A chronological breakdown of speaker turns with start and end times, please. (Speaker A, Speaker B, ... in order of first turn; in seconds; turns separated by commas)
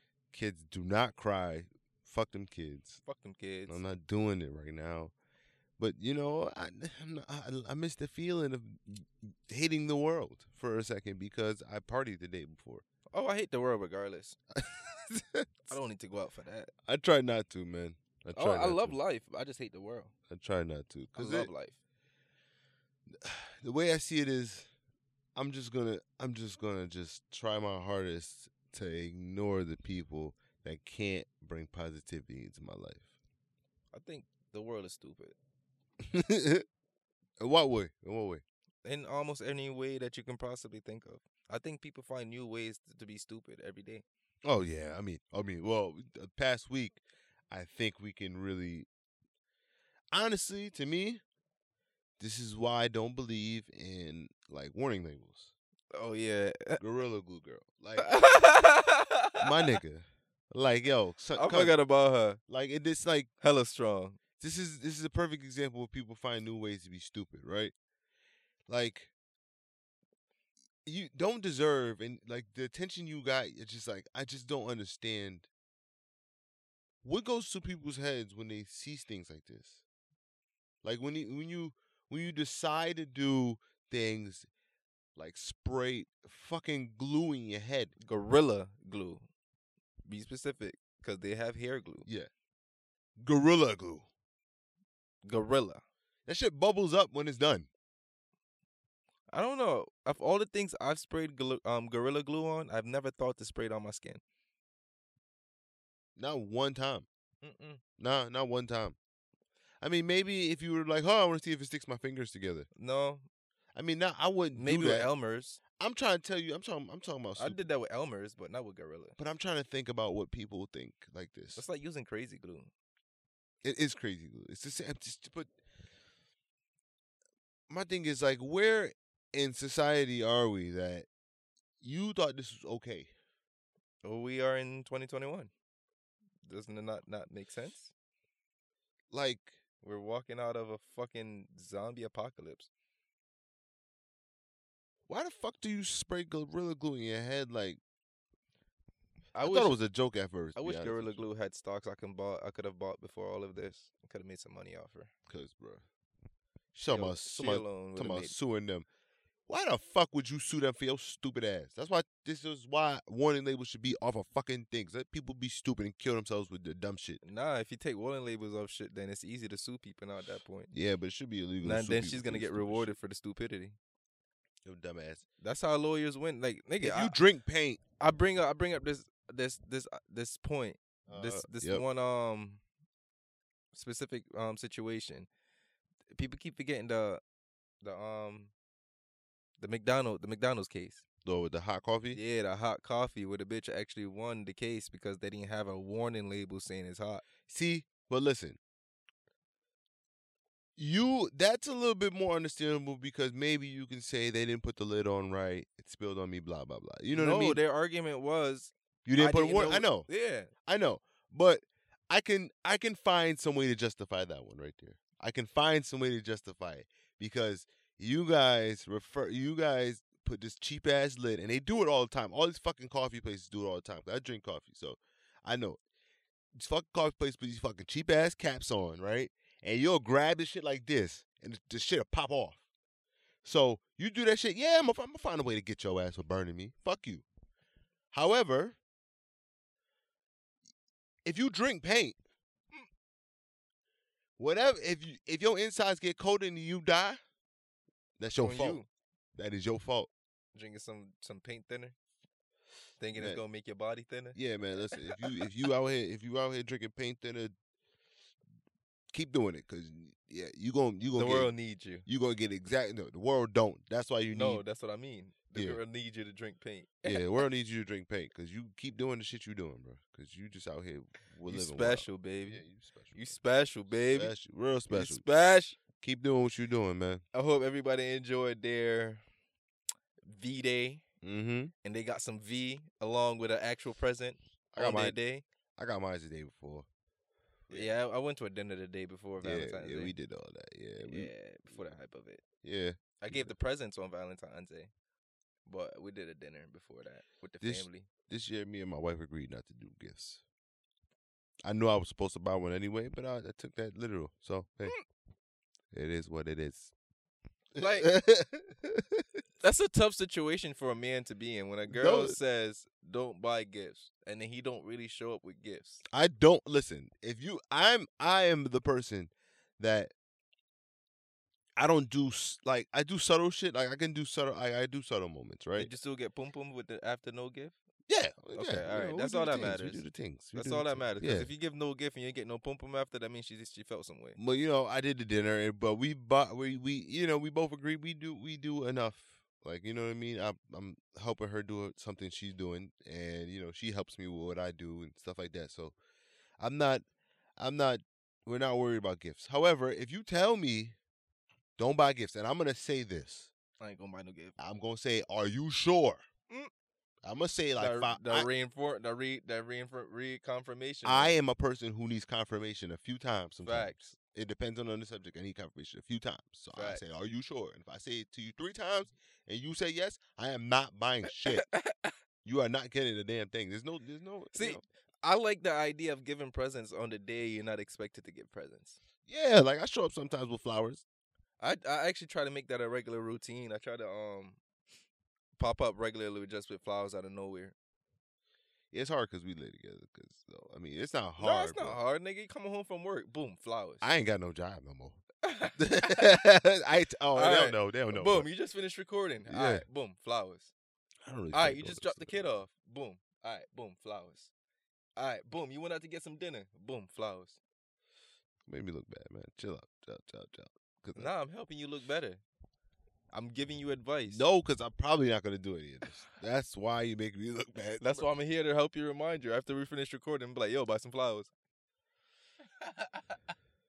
Speaker A: 0.3-3.0, Speaker B: 3.0-3.8, Speaker A: 3.7-5.1, Speaker A: 5.8-12.8, Speaker B: 13.1-14.4, Speaker A: 14.6-15.8, Speaker B: 15.7-16.7, Speaker A: 16.9-18.9, Speaker B: 18.3-20.1, Speaker A: 20.3-21.5, Speaker B: 21.1-21.8, Speaker A: 23.1-24.7, Speaker A: 25.4-33.0, Speaker B: 33.9-35.4, Speaker A: 36.0-36.6, Speaker A: 37.4-38.4, Speaker B: 38.8-44.0, Speaker A: 44.4-48.9, Speaker A: 50.1-51.2, Speaker A: 52.2-55.5, Speaker B: 55.9-56.8, Speaker A: 56.8-58.1, Speaker B: 58.0-59.8, Speaker A: 59.4-61.7, Speaker B: 61.3-62.4, Speaker A: 62.5-63.3, Speaker B: 63.4-64.2, Speaker A: 64.4-67.7, Speaker A: 68.7-69.1, Speaker A: 70.8-75.5, Speaker A: 77.0-79.8, Speaker A: 80.8-84.5, Speaker A: 85.2-87.9, Speaker B: 88.0-89.3, Speaker B: 90.1-92.1, Speaker A: 93.2-94.1, Speaker B: 95.2-95.8, Speaker A: 96.2-97.7, Speaker B: 99.3-104.2, Speaker A: 106.2-107.0, Speaker B: 107.4-107.8, Speaker A: 108.0-109.0, Speaker A: 109.8-112.7, Speaker B: 112.8-113.2, Speaker A: 113.7-115.1, Speaker B: 114.5-115.6, Speaker A: 115.8-117.6, Speaker B: 117.4-119.2, Speaker A: 119.2-121.6, Speaker B: 121.5-122.7, Speaker A: 123.6-125.5, Speaker A: 127.7-131.1, Speaker A: 131.8-133.1, Speaker B: 134.0-135.5, Speaker B: 136.4-137.9, Speaker A: 139.1-139.6, Speaker B: 139.8-142.7, Speaker A: 145.1-147.8, Speaker B: 149.3-149.8, Speaker A: 149.4-151.2, Speaker B: 150.6-155.1, Speaker A: 155.3-155.8, Speaker A: 156.7-158.8, Speaker B: 156.9-158.3, Speaker A: 159.5-167.2, Speaker B: 167.2-170.7, Speaker A: 170.7-172.9, Speaker B: 171.6-173.8, Speaker A: 174.6-175.2, Speaker B: 175.4-177.2, Speaker A: 176.8-177.8, Speaker B: 178.0-182.6, Speaker A: 181.1-181.8, Speaker B: 183.7-185.3, Speaker B: 186.1-187.2, Speaker B: 187.8-188.5, Speaker B: 189.6-191.0, Speaker A: 191.2-192.2, Speaker B: 192.1-197.2, Speaker A: 197.5-198.6, Speaker A: 200.8-207.6, Speaker B: 207.1-210.5, Speaker A: 209.0-210.1, Speaker A: 210.6-225.8, Speaker A: 226.5-232.6, Speaker A: 233.4-237.2, Speaker A: 238.1-238.8, Speaker A: 241.2-242.2, Speaker A: 244.4-247.2, Speaker A: 248.2-248.8, Speaker B: 248.4-248.9, Speaker A: 249.3-250.1, Speaker B: 250.5-251.9, Speaker B: 253.0-254.4, Speaker A: 253.1-253.4, Speaker A: 254.3-257.5, Speaker B: 254.9-255.2, Speaker A: 259.1-261.5, Speaker B: 261.1-262.1, Speaker A: 262.1-264.6, Speaker B: 264.3-267.2, Speaker A: 265.5-265.8, Speaker A: 267.0-273.4, Speaker B: 271.4-272.6, Speaker B: 273.1-274.3, Speaker A: 274.1-275.2, Speaker B: 274.9-275.8, Speaker A: 276.0-277.2, Speaker B: 277.3-279.2, Speaker B: 280.2-281.0, Speaker A: 281.2-281.7, Speaker B: 281.8-285.4, Speaker A: 284.7-285.2, Speaker A: 285.8-286.9, Speaker B: 287.7-290.1, Speaker A: 289.4-291.3, Speaker B: 291.0-292.4, Speaker A: 292.6-293.5, Speaker B: 293.2-294.9, Speaker B: 295.6-298.1, Speaker A: 297.6-300.4, Speaker A: 301.6-304.9, Speaker A: 305.9-306.9, Speaker A: 307.7-309.2, Speaker B: 307.8-308.1, Speaker B: 309.6-316.0, Speaker A: 311.9-312.4, Speaker A: 316.1-320.1, Speaker A: 321.8-325.9, Speaker B: 325.8-327.7, Speaker A: 328.1-331.5, Speaker B: 328.5-330.0, Speaker B: 330.5-334.4, Speaker A: 334.4-345.9, Speaker A: 346.6-347.0, Speaker A: 347.6-350.9, Speaker A: 351.8-353.5, Speaker B: 353.8-354.6, Speaker A: 354.6-356.2, Speaker A: 357.2-358.5, Speaker B: 357.8-361.3, Speaker A: 361.0-371.6, Speaker B: 363.6-364.1, Speaker B: 366.7-367.0, Speaker B: 371.5-372.1, Speaker A: 372.4-374.8, Speaker B: 374.5-379.0, Speaker A: 379.2-381.0, Speaker B: 381.6-384.6, Speaker B: 385.6-387.7, Speaker A: 388.9-392.0, Speaker B: 391.4-394.1, Speaker A: 394.0-395.2, Speaker B: 395.4-396.3, Speaker A: 395.7-398.5, Speaker B: 397.3-400.7, Speaker A: 399.5-399.8, Speaker A: 401.2-402.5, Speaker B: 401.5-404.5, Speaker B: 405.2-407.6, Speaker A: 408.7-411.3, Speaker B: 411.1-412.4, Speaker B: 413.3-414.4, Speaker A: 414.3-418.3, Speaker B: 418.0-421.5, Speaker B: 422.8-423.4